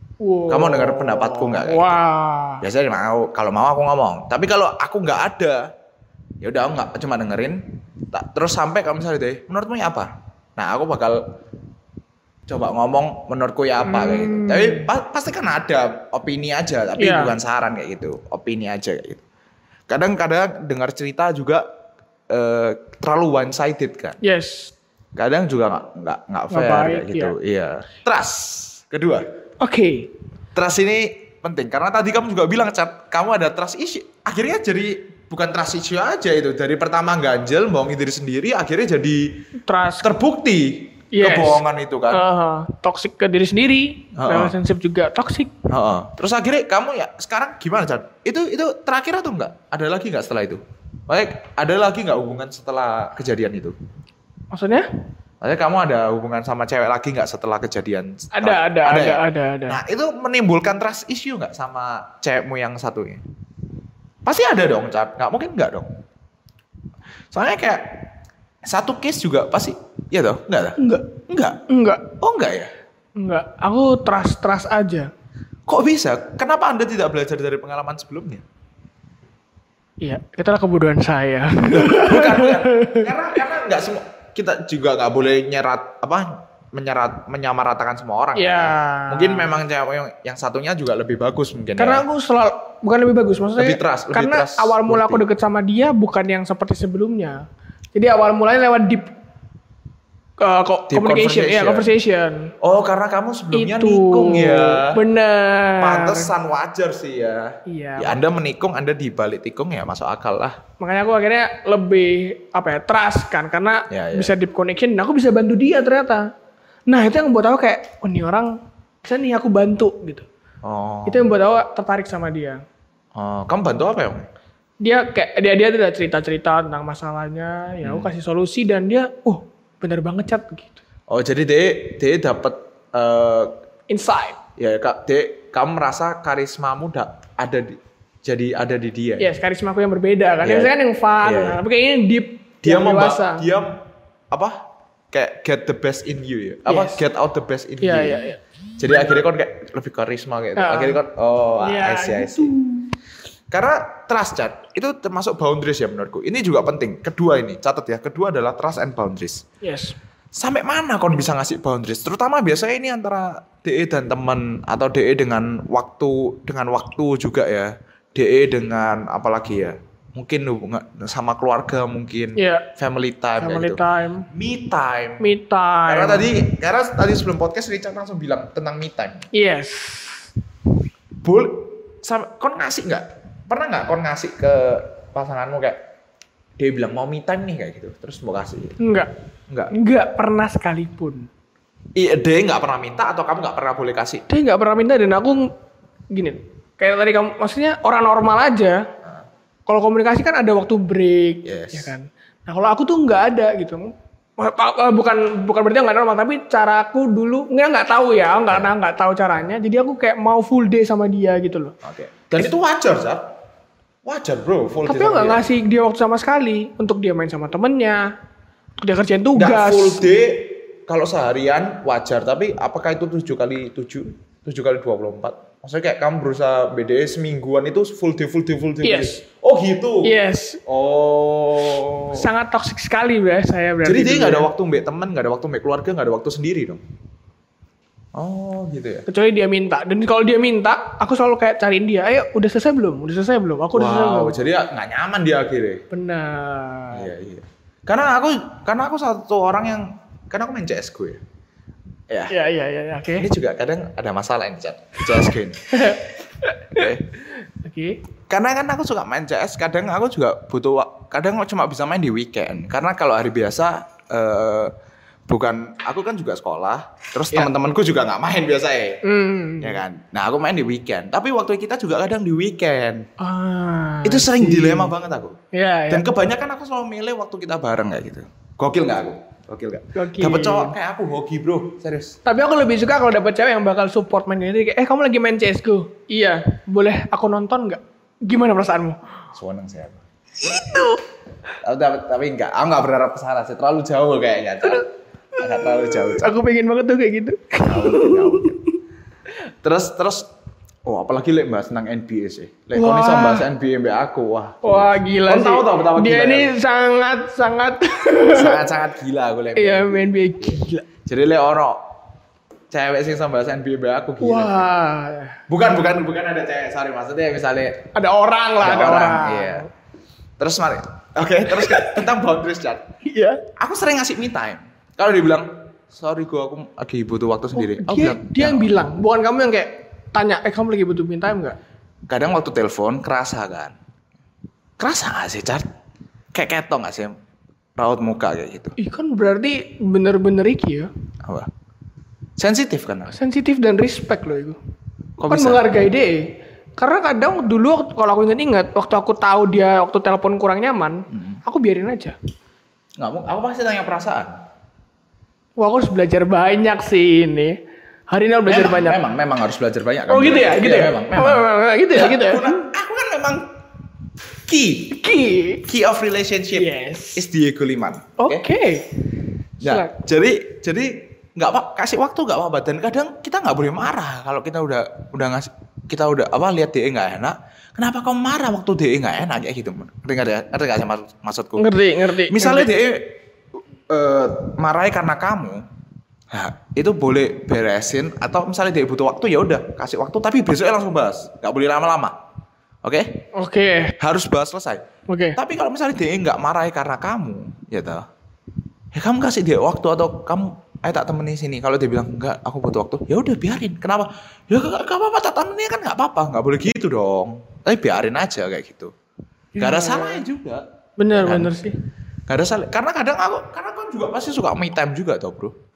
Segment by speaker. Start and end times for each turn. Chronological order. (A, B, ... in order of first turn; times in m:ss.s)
0:00.2-0:02.6 A
0:00.5-0:02.0 B
0:02.6-0:05.6 B
0:06.4-0:07.6 B
0:08.1-0:11.2 B
0:12.5-0:19.2 B
0:13.8-0:14.9 A
0:17.0-0:17.3 A
0:19.9-0:21.6 B
0:22.3-0:24.2 B
0:24.2-0:24.7 A
0:25.2-0:29.2 B
0:26.5-0:27.3 A
0:29.6-0:30.1 A
0:30.5-0:39.4 B
0:39.6-0:40.1 A
0:40.0-0:42.2 B
0:41.1-0:45.5 A
0:44.1-0:44.5 B
0:45.7-0:53.8 B
0:54.5-0:54.9 A
0:55.4-1:03.2 B
0:58.3-0:59.8 A
1:04.2-1:05.9 B
1:07.3-1:08.1 B
1:08.6-1:11.6 B
1:10.8-1:12.1 A
1:12.2-1:12.7 B
1:13.2-1:15.1 A
1:15.7-1:18.4 B
1:20.0-1:23.4 A
1:21.7-1:32.0 B
1:28.4-1:29.5 A
1:31.8-1:39.1 A
1:33.6-1:35.2 B
1:40.4-1:42.5 A
1:40.9-1:41.9 B
1:42.6-1:45.0 B
1:43.5-1:46.3 A
1:45.8-1:50.6 B
1:47.6-1:48.2 A
1:50.8-1:56.3 A
1:53.9-1:54.3 B
1:56.9-2:00.2 A
2:00.6-2:01.3 B
2:01.0-2:02.6 A
2:03.2-2:04.3 B
2:04.8-2:10.8 A
2:07.8-2:08.1 B
2:11.1-2:13.5 B
2:13.9-2:14.4 A
2:14.6-2:19.3 B
2:19.2-2:23.4 A
2:20.4-2:21.6 B
2:22.6-2:23.8 B
2:24.3-2:24.6 B
2:25.1-2:28.2 B
2:26.6-2:27.0 A
2:27.8-2:28.4 A
2:28.8-2:32.5 B
2:30.6-2:31.0 A
2:31.6-2:32.9 A
2:33.5-2:39.4 B
2:39.6-2:40.0 A
2:40.4-2:55.3 B
2:52.4-2:52.6 A
2:53.4-2:54.3 A
2:55.2-2:56.3 A
2:55.9-2:59.3 B
2:59.3-3:00.3 A
3:01.2-3:05.8 B
3:06.6-3:08.8 B
3:08.8-3:09.1 A
3:09.7-3:11.3 A
3:12.0-3:14.2 B
3:14.3-3:15.5 A
3:16.1-3:18.9 A
3:19.6-3:31.7 A
3:21.4-3:21.9 B
3:31.8-3:33.2 B
3:34.0-3:35.4 B
3:34.8-3:38.1 A
3:38.8-3:40.1 A
3:39.3-3:50.1 B
3:48.8-3:49.2 A
3:50.0-3:50.6 A
3:50.6-3:52.3 B
3:52.1-3:54.5 A
3:53.8-3:56.8 B
3:58.1-3:59.1 B
3:59.1-4:04.4 A
4:03.7-4:05.8 B
4:05.9-4:07.1 A
4:06.9-4:11.2 B
4:12.3-4:13.3 A
4:13.2-4:15.7 B
4:15.1-4:18.0 A
4:16.7-4:17.1 B
4:18.3-4:24.7 B
4:25.3-4:29.0 B
4:29.0-4:29.8 A
4:29.6-4:33.1 B
4:33.2-4:34.9 A
4:34.0-4:35.4 B
4:35.5-4:36.1 A
4:35.9-4:42.2 B
4:39.9-4:40.7 A
4:42.2-4:49.0 A
4:49.3-4:50.0 B
4:50.4-4:51.0 A
4:51.6-4:56.3 B
4:55.4-4:58.6 A
4:57.6-4:58.6 B
4:59.6-5:00.3 B
5:00.8-5:06.5 B
5:02.7-5:03.5 A
5:04.6-5:08.6 A
5:08.3-5:11.8 B
5:09.6-5:10.8 A
5:12.7-5:14.7 B
5:14.2-5:15.4 A
5:15.5-5:17.9 B
5:17.9-5:19.7 A
5:18.6-5:19.7 B
5:20.4-5:22.9 B
5:21.5-5:22.0 A
5:23.0-5:23.4 A
5:23.6-5:28.7 B
5:27.5-5:31.6 A
5:32.1-5:33.7 B
5:34.8-5:35.6 B
5:36.3-5:37.2 B
5:37.8-5:38.7 B
5:38.8-5:40.9 A
5:42.4-5:43.1 B
5:43.1-5:44.6 A
5:45.2-5:45.7 B
5:45.3-5:52.2 A
5:51.1-5:51.4 B
5:53.0-5:54.4 B
5:55.6-5:57.6 A
5:58.1-5:59.0 A
5:58.5-6:03.4 B
6:00.1-6:02.7 A
6:04.5-6:05.0 B
6:04.9-6:05.6 A
6:05.6-6:08.4 B
6:06.5-6:07.2 A
6:08.2-6:09.0 A
6:09.6-6:10.0 A
6:09.6-6:23.2 B
6:21.6-6:22.7 A
6:23.9-6:25.6 B
6:26.3-6:32.2 B
6:32.8-6:33.2 B
6:33.3-6:33.9 A
6:34.0-6:34.8 B
6:35.1-6:35.4 A
6:35.4-6:38.0 B
6:38.9-6:48.9 B
6:49.5-6:50.2 A
6:49.6-6:51.6 B
6:51.0-6:51.8 A
6:52.3-6:55.5 B